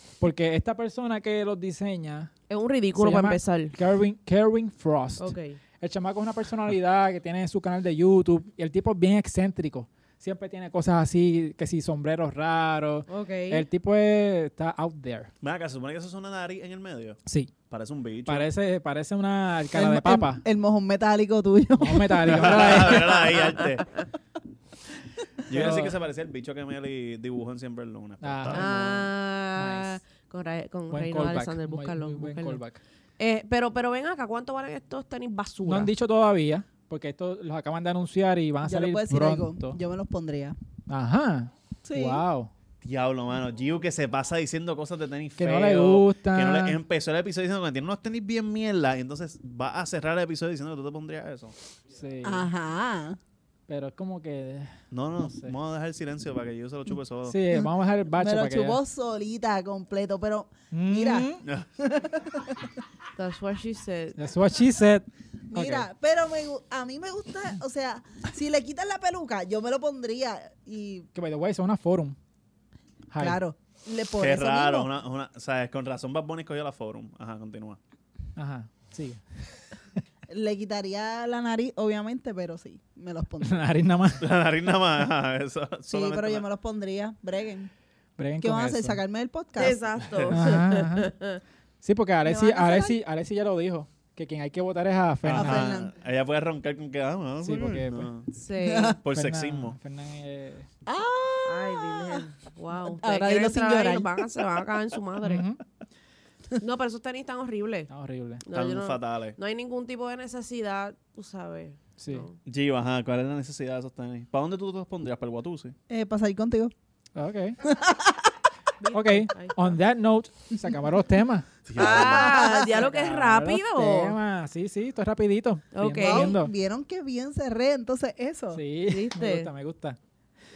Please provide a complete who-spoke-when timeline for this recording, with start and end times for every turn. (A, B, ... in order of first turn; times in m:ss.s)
0:00.2-0:02.3 A
0:02.5-0:03.8 B
0:03.0-0:15.3 A
0:05.2-0:05.6 B
0:13.1-0:13.6 B
0:15.4-0:18.5 C
0:17.3-0:17.5 A
0:18.2-0:20.4 A
0:19.7-0:22.8 D
0:21.8-0:23.5 A
0:22.3-0:24.0 C
0:25.5-0:29.1 C
0:25.5-0:26.0 A
0:28.2-0:28.8 A
0:28.5-0:32.6 B
0:29.6-0:30.0 A
0:30.9-0:32.8 A
0:33.2-0:35.9 B
0:35.7-0:39.8 A
0:38.6-0:40.6 D
0:40.9-0:42.5 A
0:41.8-0:42.2 D
0:42.8-0:51.6 C
0:45.4-0:46.8 A
0:51.9-0:52.5 A
0:52.2-0:53.2 D
0:53.7-0:55.6 A
0:54.9-0:57.4 C
0:57.3-0:58.8 A
0:57.5-1:02.8 D
1:00.7-1:01.4 A
1:03.2-1:04.2 B
1:04.2-1:05.9 A
1:05.5-1:11.1 D
1:11.1-1:12.2 A
1:13.1-1:13.4 A
1:13.2-1:14.9 D
1:14.2-1:17.8 C
1:18.4-1:19.2 A
1:20.3-1:23.6 D
1:23.4-1:24.3 A
1:24.2-1:26.4 C
1:25.9-1:27.7 D
1:28.2-1:29.0 A
1:28.4-1:29.8 D
1:29.6-1:31.4 B
1:30.0-1:30.5 C
1:30.3-1:31.1 A
1:31.8-1:35.7 A
1:32.2-1:33.0 D
1:35.2-1:38.3 C
1:35.4-1:35.9 D
1:37.4-1:38.1 A
1:38.3-1:39.0 B
1:38.6-1:39.0 D
1:38.9-1:39.8 C
1:39.1-1:40.7 A
1:40.9-1:42.3 D
1:41.4-1:45.4 B
1:42.8-1:44.4 D
1:45.2-1:45.6 A
1:46.6-1:47.9 B
1:47.9-1:48.4 A
1:48.4-1:52.4 B
1:48.5-1:49.4 C
1:52.0-1:52.3 A
1:52.4-1:55.8 C
1:55.9-1:56.7 D
1:57.2-1:57.6 A
1:57.6-1:58.3 D
1:58.8-1:59.8 B
1:58.9-2:01.5 A
2:01.7-2:02.4 C
2:01.8-2:02.9 D
2:01.8-2:04.2 B
2:02.5-2:06.5 A
2:05.7-2:06.4 B
2:06.0-2:08.6 D
2:08.5-2:10.0 A
2:08.9-2:09.5 B